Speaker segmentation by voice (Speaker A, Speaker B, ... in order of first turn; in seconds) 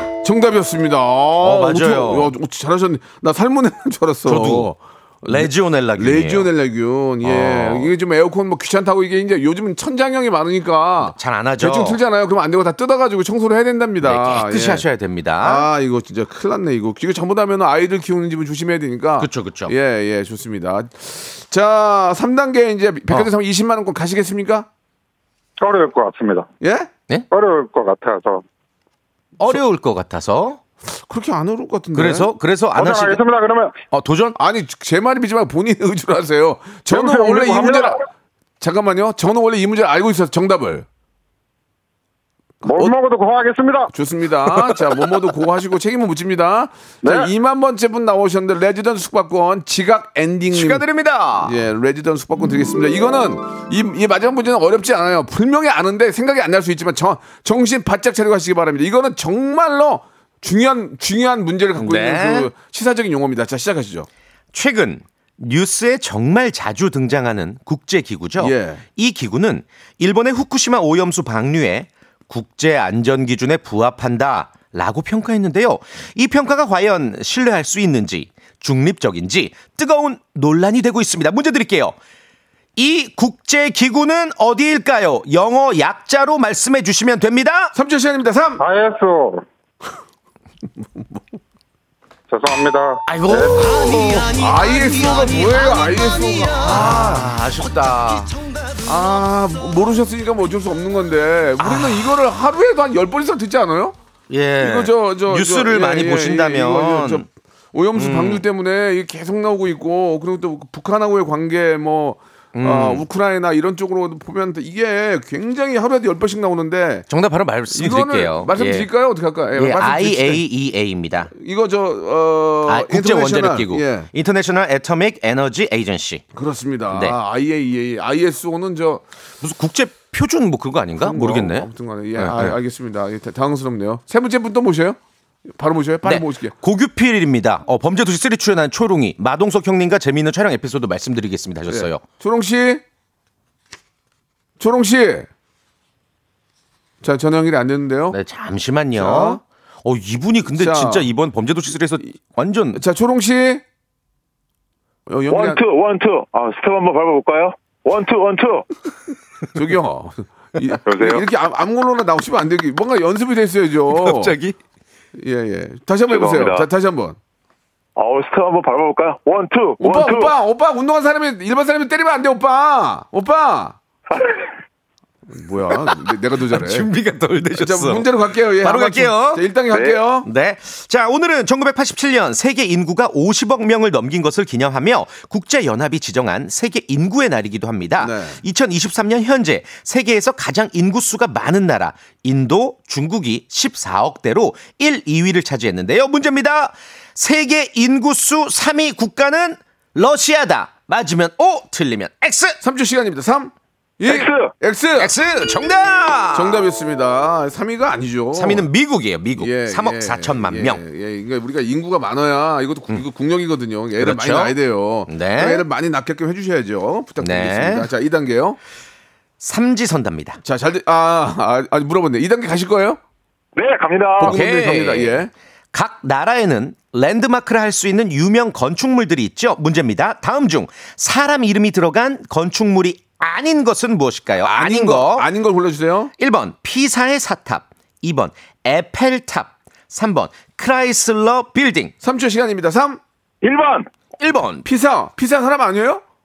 Speaker A: 0.2-14.9, 15.4-24.7, 26.6-26.9, 30.8-32.3, 34.4-38.0, 38.6-40.9, 42.6-42.9, 43.9-50.8, 51.4-64.1, 68.4-68.8, 87.7-88.6, 93.8-97.2, 98.8-104.0, 104.6-117.1, 117.7-120.4, 121.3-124.1, 126.3-129.0, 131.0-135.0, 135.6-136.6, 141.7-142.8, 144.6-145.3, 147.0-148.2, 148.9-149.4, 150.5-151.1, 152.7-153.6, 155.1-155.6, 159.5-164.3, 165.2-167.2, 169.8-173.8, 175.3-176.9, 177.5-180.3, 188.0-188.4, 202.6-205.1, 206.3-208.7, 209.4-218.6, 220.4-223.0, 224.2-225.3, 234.4-236.1, 242.0-243.0, 244.6-246.0
Speaker B: 1.4-2.3, 4.2-4.7, 5.2-6.5, 7.2-7.9, 11.0-12.0, 14.0-15.7, 19.2-19.7, 29.4-30.6, 31.9-33.2, 33.9-34.4, 50.5-51.5, 61.8-62.5, 64.5-82.0, 82.8-87.7, 93.0-98.7, 101.6-102.1, 104.3-107.2, 107.9-108.4, 112.5-113.0, 117.1-118.9, 119.5-121.3, 122.7-126.2, 126.9-127.2, 129.4-132.6, 136.0-142.0, 148.1-152.8, 163.9-164.6, 176.5-202.6, 205.0-206.6, 208.3-210.8, 214.0-215.6, 217.2-217.9, 219.4-220.4, 224.2-225.2, 225.7-235.3, 236.2-241.9, 244.2-244.7
Speaker C: 25.6-26.4, 27.3-28.4, 32.7-33.7, 36.9-37.9, 42.6-43.9, 47.0-47.3, 88.6-89.4, 92.3-93.7
Speaker D: 155.3-158.7, 160.9-161.2, 166.1-166.7, 167.9-170.3, 174.1-174.4, 204.0-204.5, 223.6-224.3, 243.4-243.9